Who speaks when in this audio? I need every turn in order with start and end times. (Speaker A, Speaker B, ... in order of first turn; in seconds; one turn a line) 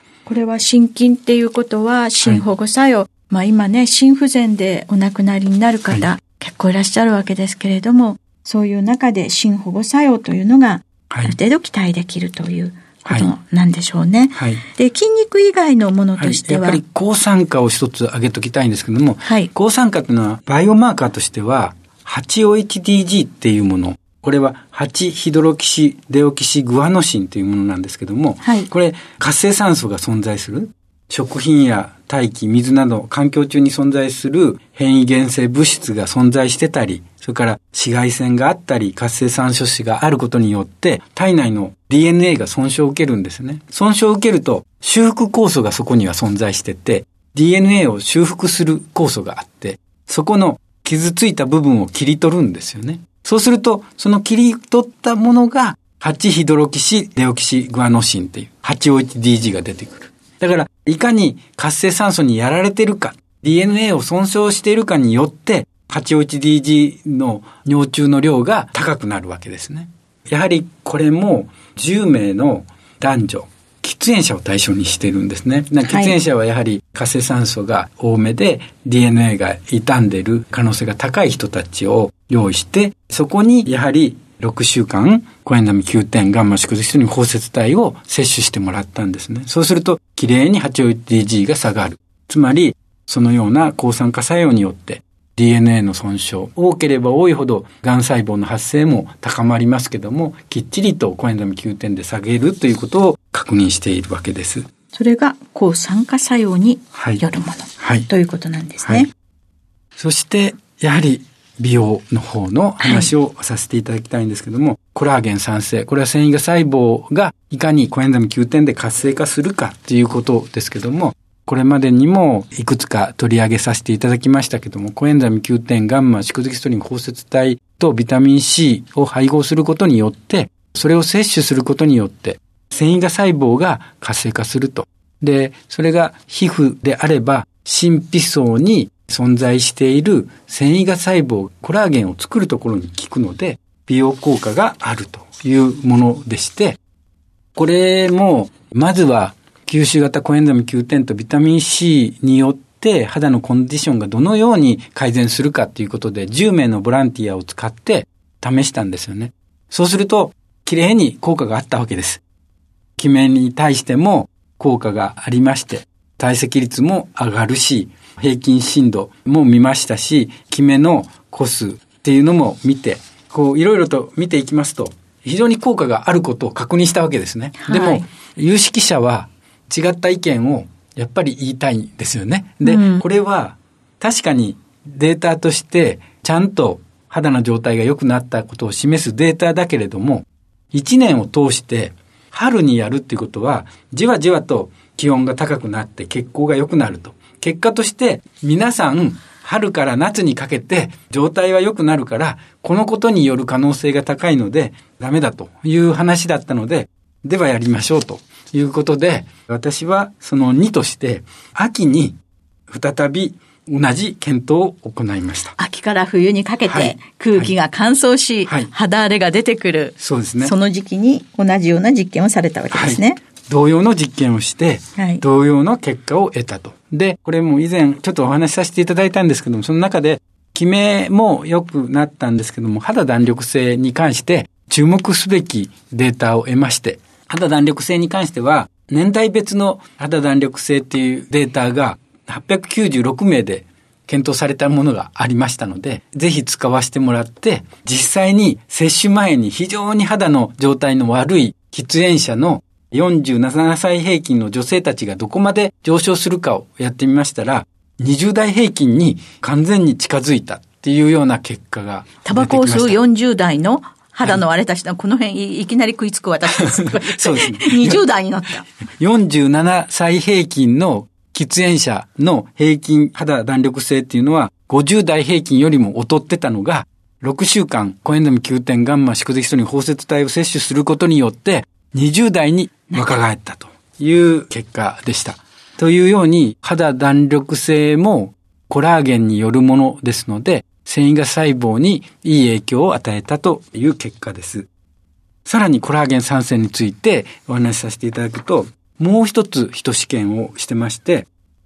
Speaker A: 0.3-16.8
Speaker B: 13.1-13.3
Speaker B: 14.3-14.6
Speaker B: 16.2-104.7
Speaker A: 19.2-19.5
Speaker A: 28.4-28.7
Speaker A: 75.9-76.2
Speaker A: 104.9-109.1
Speaker B: 107.0-107.2
Speaker B: 107.8-108.1
Speaker B: 110.0-146.8
Speaker A: 112.8-113.1
Speaker B: 147.6-162.2
Speaker B: 163.0-212.2
Speaker A: 177.6-178.1
Speaker A: 182.6-183.0
Speaker B: 212.7-215.6
Speaker A: 215.6-223.2
Speaker B: 216.7-217.5
Speaker B: 218.5-218.7
Speaker B: 220.0-220.5
Speaker B: 222.7-263.0
Speaker A: 225.0-225.2
Speaker A: 262.2-268.7
Speaker B: 266.5-268.0
Speaker B: 269.0-294.7
Speaker B: 295.5-301.3